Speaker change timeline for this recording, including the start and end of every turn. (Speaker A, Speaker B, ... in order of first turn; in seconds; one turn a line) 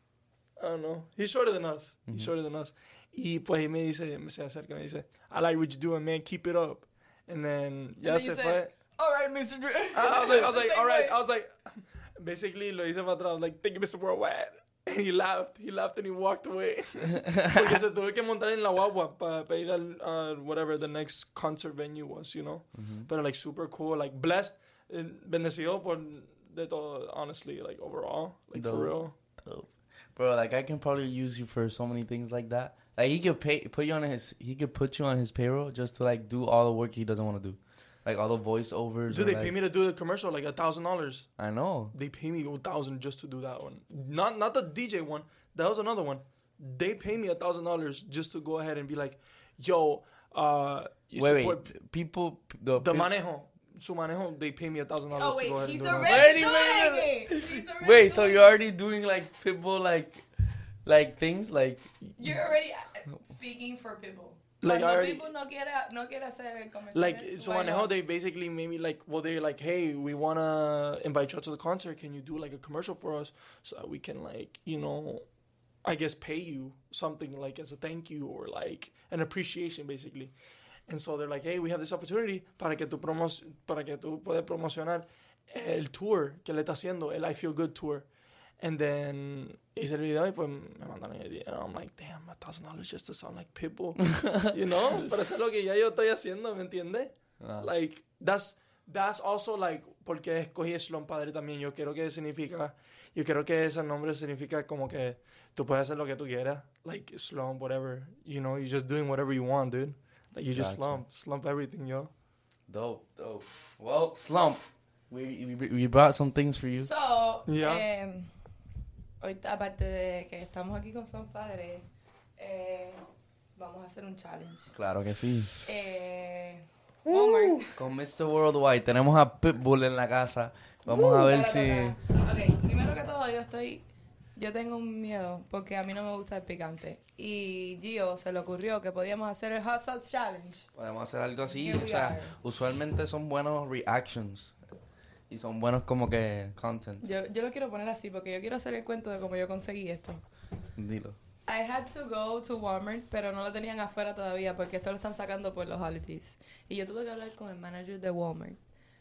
Speaker A: 0.6-8.7
Speaker B: 8.0-11.2
Speaker A: 9.9-29.1
Speaker C: 17.2-17.6
Speaker C: 22.7-23.1
Speaker C: 28.5-39.5
Speaker A: 39.1-41.3
Speaker C: 41.4-41.9
Speaker A: 41.9-51.7
Speaker C: 51.2-53.1
Speaker A: 52.8-56.4
Speaker B: 55.1-58.6
Speaker C: 55.9-60.2
Speaker C: 60.8-61.9
Speaker B: 62.2-68.0
Speaker A: 64.6-65.3
Speaker A: 66.9-75.2
Speaker A: 75.8-80.3
Speaker A: 80.9-88.0
Speaker A: 88.6-112.1
Speaker C: 94.0-94.5
Speaker C: 97.4-97.7
Speaker C: 110.5-111.0
Speaker C: 112.7-116.9
Speaker B: 116.8-118.3
Speaker A: 117.5-117.8
Speaker B: 119.2-121.8
Speaker B: 122.4-123.0
Speaker B: 123.5-124.7
Speaker C: 124.7-125.5
Speaker B: 125.6-127.7
Speaker C: 127.7-131.9
Speaker B: 130.9-133.8
Speaker B: 134.3-140.7
Speaker C: 140.7-144.6
Speaker B: 141.5-142.4
Speaker C: 145.3-147.0
Speaker B: 147.0-150.2
Speaker C: 150.8-151.2
Speaker B: 151.5-158.6